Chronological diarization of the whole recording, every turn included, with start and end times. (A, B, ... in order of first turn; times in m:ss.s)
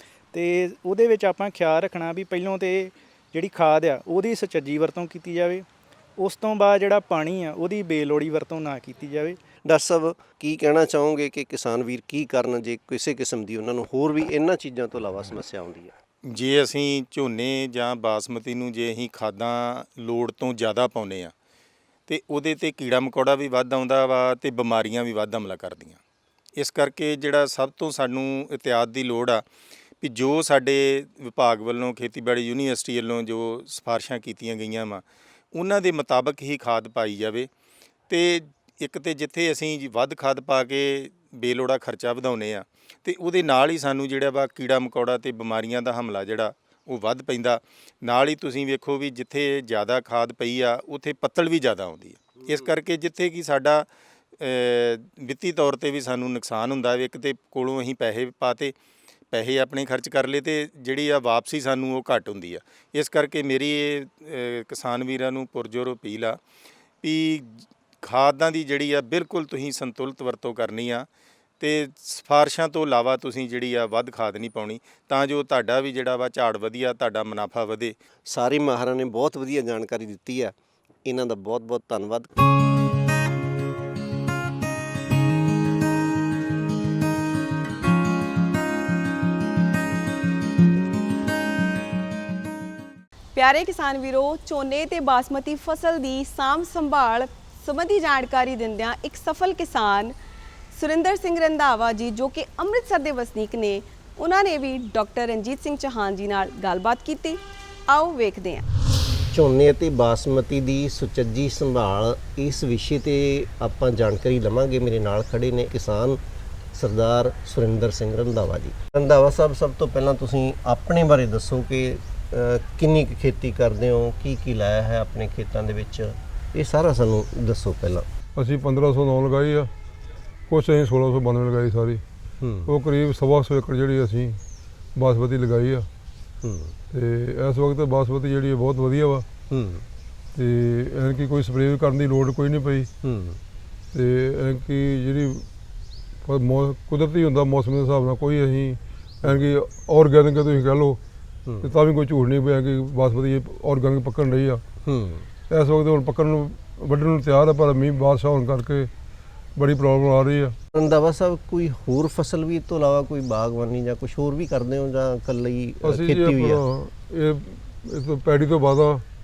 0:00.3-0:05.6 A
0:06.2-0:09.4 A
0:09.6-0:15.9 B
0:16.2-0:21.3 C
0:22.1-0:26.0 C
0:26.6-0:29.4 C
0:30.0-0:35.0 C
0:35.5-0:37.5 C
0:38.1-0:58.7 C
0:59.3-1:06.4 C
1:07.0-1:11.1 C
1:11.6-1:17.9 C
1:18.3-1:20.5 B
1:21.0-1:22.3 B
1:33.3-1:40.1 D
1:40.7-1:48.6 D
1:49.3-1:56.2 B
1:56.7-2:08.0 B
2:08.4-2:09.7 E
2:10.5-2:12.0 E
2:12.4-2:12.7 B
2:12.6-2:14.4 E
2:15.0-2:15.9 E
2:16.4-2:16.7 B
2:16.9-2:19.2 E
2:19.5-2:19.8 B
2:20.3-2:22.9 E
2:23.0-2:23.4 B
2:23.9-2:25.5 E
2:26.2-2:31.0 E
2:31.6-2:34.6 E
2:34.8-2:35.2 B
2:35.5-2:38.9 E
2:39.6-2:40.6 E
2:40.7-2:46.6 B
2:45.8-2:49.0 E